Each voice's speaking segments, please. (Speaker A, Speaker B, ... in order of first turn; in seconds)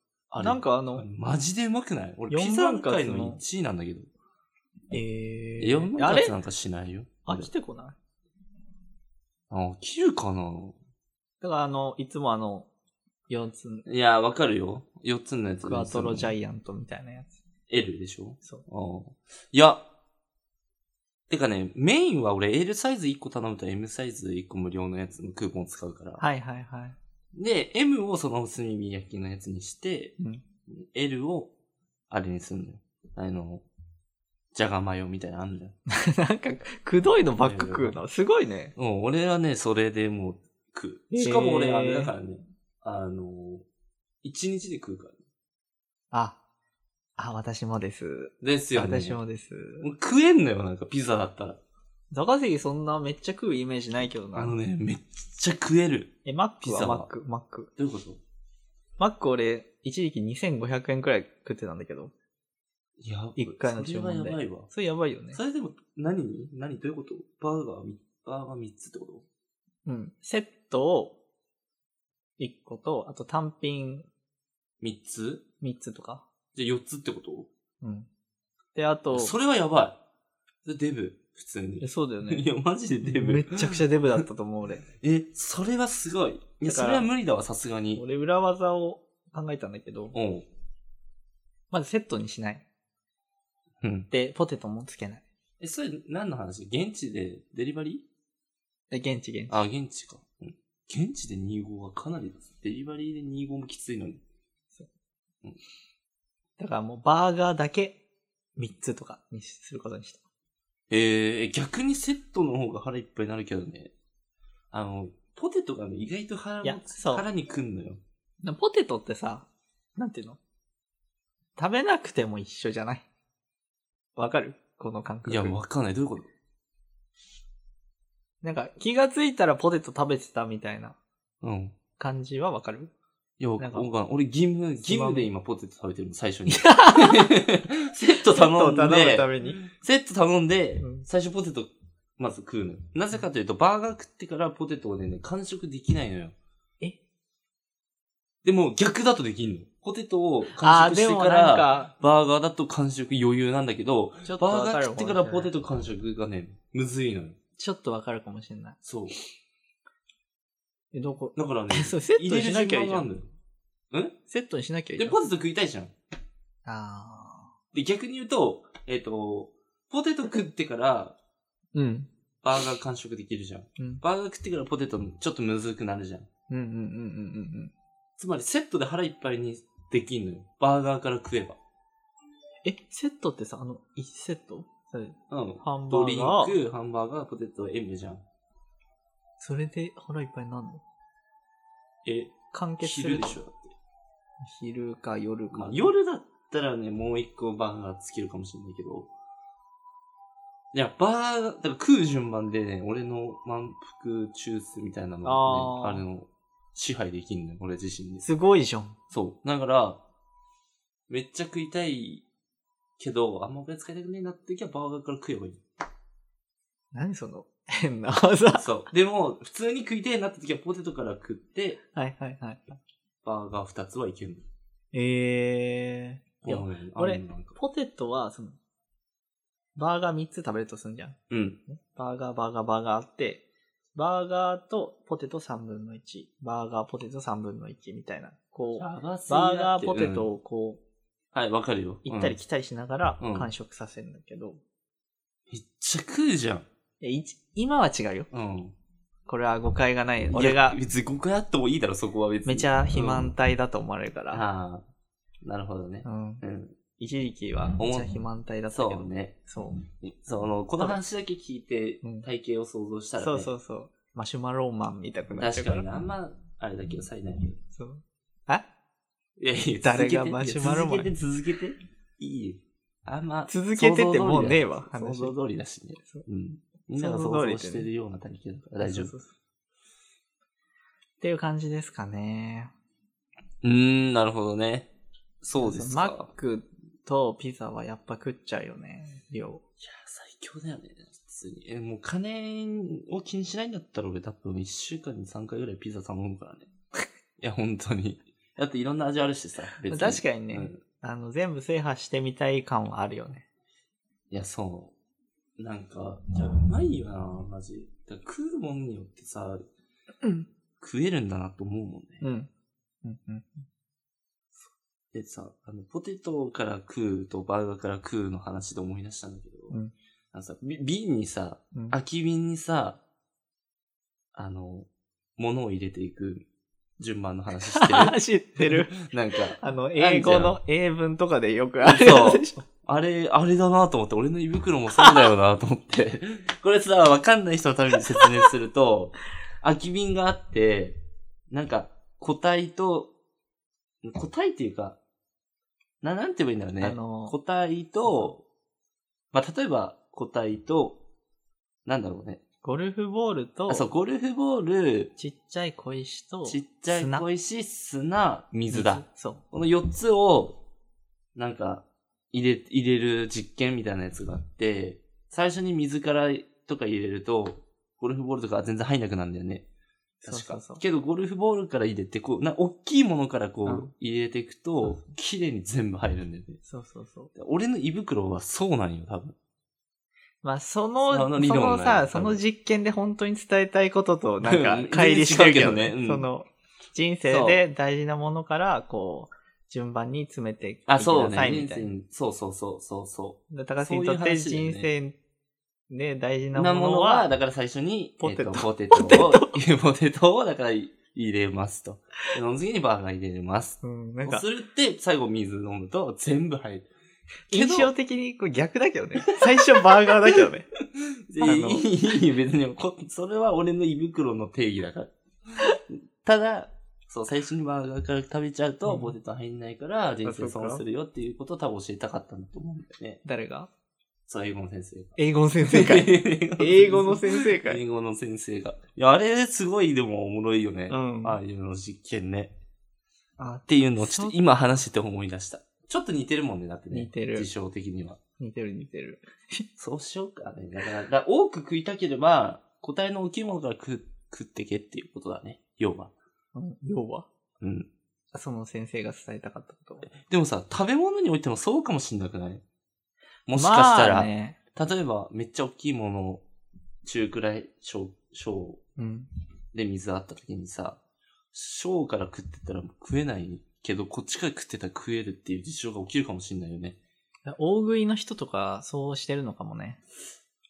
Speaker A: 0.3-4.1, 5.6-7.5, 9.5-10.8, 13.9-16.3, 17.7-19.8, 21.3-26.2, 27.3-30.1, 30.7-31.5, 32.1-33.6, 34.5-35.8, 37.4-38.0, 38.8-43.7, 44.2-45.2, 48.4-49.2, 49.8-51.6, 54.3-57.1, 57.8-58.2, 63.0-64.7, 65.3-69.2, 74.8-75.4, 76.5-77.5, 79.1-80.0, 80.7-84.2, 85.0-88.0, 90.1-90.5, 93.8-94.1, 95.6-98.0, 99.5-104.2, 110.9-113.9, 114.7-118.0, 125.2-126.3, 131.4-131.8, 133.4-146.3, 148.4-157.4, 158.8-159.2, 161.4-163.3, 164.9-165.9, 167.7-171.2, 172.4-176.3, 178.2-181.6, 185.3-188.2, 192.1-193.8, 195.5-199.1, 200.7-208.2, 209.1-210.0, 211.1-212.2, 213.0-215.6, 218.5-221.8, 223.2-224.4, 226.4-227.6, 231.3-231.6, 238.8-240.3, 241.3-242.4, 243.2-243.5, 245.5-246.7, 248.3-248.7, 250.3-253.3, 254.3-254.9, 255.4-256.8, 257.8-258.1, 258.7-259.4, 260.0-263.5, 265.3-267.6, 269.4-279.1, 283.6-284.9, 285.4-286.3, 289.8-296.7, 297.4-300.8, 304.3-304.9, 305.6-309.6, 310.8-312.2, 314.6-319.8, 320.3-323.0, 324.4-326.4, 327.0-330.6, 331.8-341.0, 341.5-343.1, 344.0-345.0, 346.0-348.4, 349.3-351.0, 351.9-352.4, 353.7-355.1, 356.4-360.6, 361.4-369.7, 370.3-376.6, 377.3-379.3, 381.1-382.4, 384.4-386.3, 387.3-387.6, 390.9-394.9, 396.5-406.9, 407.5-407.9, 409.2-423.2, 424.3-432.5, 433.7-438.2, 439.8-446.1, 447.6-447.9, 450.1-452.6, 453.5-456.4, 457.0-458.8, 459.7-461.0, 461.5-467.0
Speaker B: 0.4-1.1, 2.3-3.4, 4.9-6.4, 7.2-8.0, 11.4-12.7, 13.3-13.9, 15.6-17.4, 26.2-27.0, 35.9-38.7, 41.1-42.1, 46.1-46.4, 47.2-49.9, 52.1-54.5, 56.2-57.7, 59.0-62.1, 63.4-65.4, 69.9-71.2, 72.4-74.1, 75.6-76.2, 77.8-78.1, 78.8-79.3, 81.8-82.5, 83.0-84.8, 86.7-87.1, 88.0-90.2, 91.7-92.7, 94.1-95.2, 98.9-99.6, 106.6-108.0, 108.6-110.2, 116.6-117.2, 118.4-120.4, 121.6-123.1, 124.2-125.6, 128.4-131.0, 132.0-132.9, 133.6-133.9, 134.8-135.3, 136.5-137.4, 138.2-139.6, 140.8-141.1, 150.5-151.9, 154.2-155.5, 157.6-158.8, 160.9-163.1, 164.3-165.2, 166.6-167.5, 171.7-172.1, 173.8-174.0, 176.5-177.7, 182.6-186.6, 189.4-190.8, 192.5-193.4, 194.4-195.9, 205.2-206.1, 208.2-209.0, 216.9-218.8, 221.9-222.8, 224.9-228.6, 229.8-240.8, 242.1-244.6, 247.0-248.3, 249.2-250.8, 252.4-254.4, 256.0-256.4, 257.0-259.8, 262.0-262.3, 263.2-265.9, 267.7-268.6, 269.8-271.1, 273.5-275.4, 275.9-276.2, 277.0-277.9, 278.8-279.3, 281.2-282.7, 285.6-289.6, 299.9-303.4, 312.2-312.5, 313.0-313.7, 327.7-329.1, 329.6-332.6, 334.9-335.3, 346.8-347.4, 348.0-348.3, 352.6-353.9, 355.2-357.3, 358.7-359.4, 370.2-370.8, 373.7-373.9, 376.6-377.3, 380.4-391.9, 393.5-395.2, 395.9-397.3, 398.2-399.6, 403.8-404.4, 407.5-410.7, 411.4-411.9, 418.8-419.2, 420.2-420.8, 423.2-423.7, 425.2-427.8, 430.9-431.4, 433.4-434.3, 436.9-437.5, 438.4-439.6, 446.5-447.3, 448.3-450.1, 453.5-454.6, 459.0-459.3, 467.4-470.0